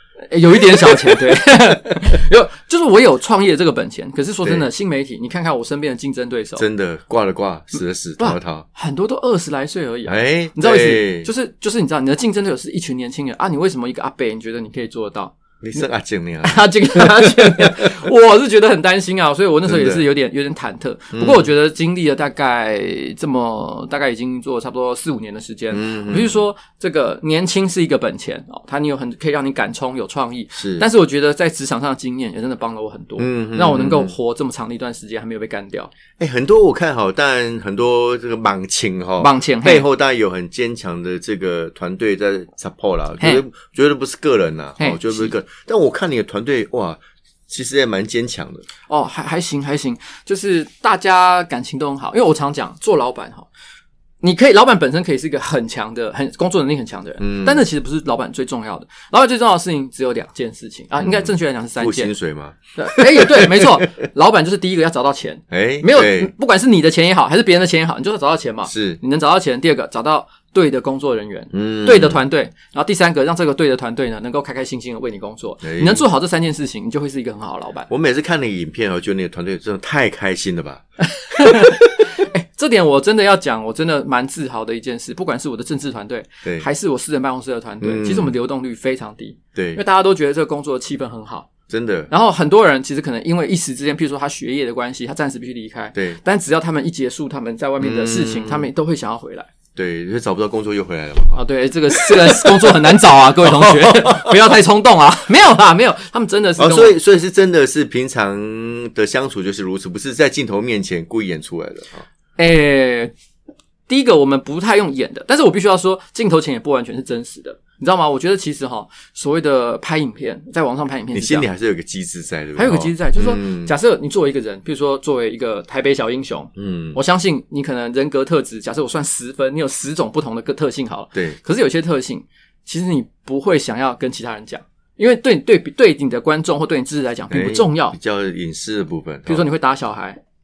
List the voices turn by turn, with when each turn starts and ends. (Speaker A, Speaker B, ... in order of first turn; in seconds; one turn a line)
Speaker A: 0.3-6.6
Speaker B: 0.7-1.1
Speaker B: 6.6-8.6
Speaker A: 8.2-15.8
Speaker B: 10.1-11.3
Speaker B: 15.6-18.0
Speaker A: 16.4-35.9
Speaker B: 19.6-20.0
Speaker B: 21.1-21.5
Speaker B: 25.7-26.4
Speaker B: 30.6-30.8
Speaker B: 33.2-34.1
Speaker B: 36.2-48.6
Speaker A: 39.2-39.8
Speaker A: 44.8-45.3
Speaker A: 48.9-53.5
Speaker A: 54.2-62.1
Speaker B: 57.2-57.6
Speaker B: 61.0-63.9
Speaker A: 62.8-77.9
Speaker B: 65.5-66.3
Speaker B: 68.7-69.0
Speaker B: 71.5-72.2
Speaker B: 75.6-76.0
Speaker B: 77.9-80.8
Speaker A: 81.2-91.5
Speaker B: 81.4-82.0
Speaker B: 87.8-88.3
Speaker B: 89.5-89.8
Speaker B: 91.7-92.1
Speaker A: 92.1-99.5
Speaker B: 97.8-98.7
Speaker B: 99.8-104.3
Speaker A: 101.3-107.0
Speaker B: 106.6-112.0
Speaker A: 112.4-113.1
Speaker A: 113.9-121.5
Speaker B: 121.1-123.7
Speaker A: 122.5-137.9
Speaker B: 126.5-127.0
Speaker B: 137.3-139.4
Speaker A: 139.3-140.2